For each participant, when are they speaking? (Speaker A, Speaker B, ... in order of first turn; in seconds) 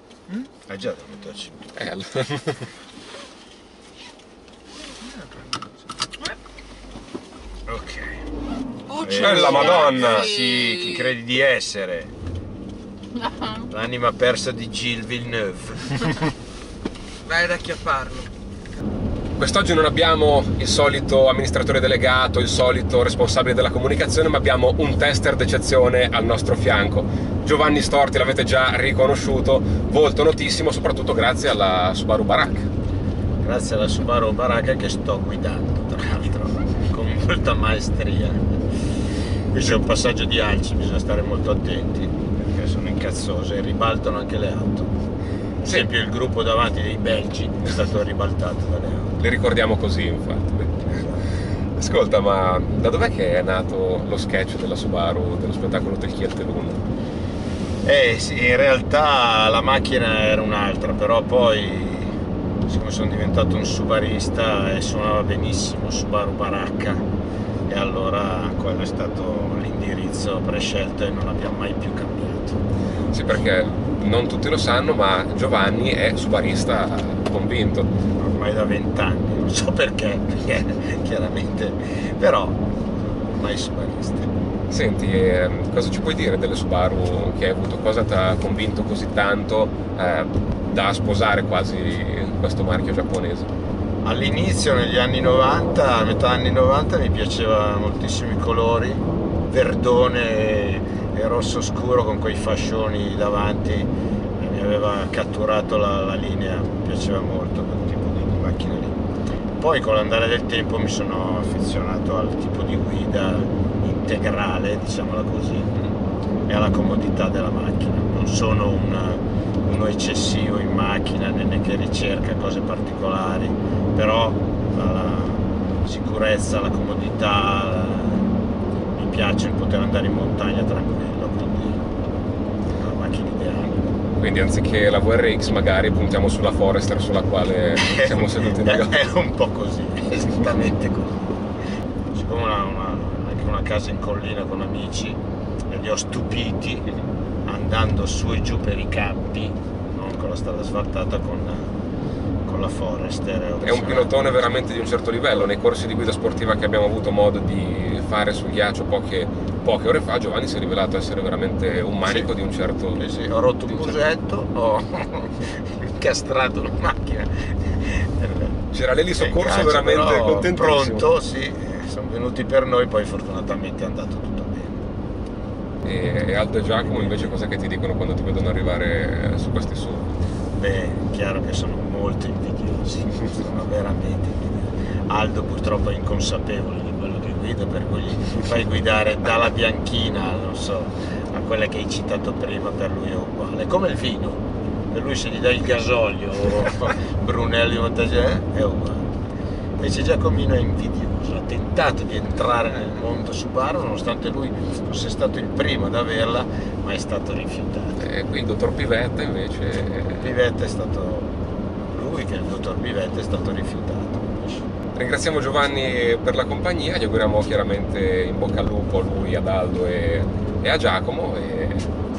Speaker A: 0.7-1.7, 7.7-8.2, 8.9-12.1, 13.6-16.2, 33.4-38.6, 39.5-44.9, 45.6-49.2, 50.9-51.3, 57.8-62.2, 62.7-67.1, 67.7-72.6, 78.2-84.3, 94.0-115.8, 116.5-128.3, 128.9-131.9, 132.8-134.0, 137.8-141.5, 142.1-145.2, 145.7-146.9, 147.5-151.8, 152.5-154.1, 162.0-162.3, 163.0-168.6, 169.2-174.8, 180.6-199.1, 199.8-208.1, 210.2-214.7
Speaker B: 1.8-2.7, 9.1-10.4, 19.4-32.7, 49.2-50.9, 51.8-56.9, 73.1-77.9, 84.7-93.5, 134.2-139.0, 153.6-163.0, 163.7-164.0, 168.7-171.1, 175.8-180.1, 208.0-210.3, 214.9-221.9
Speaker C: 5.1-5.4, 8.9-11.1, 17.2-18.3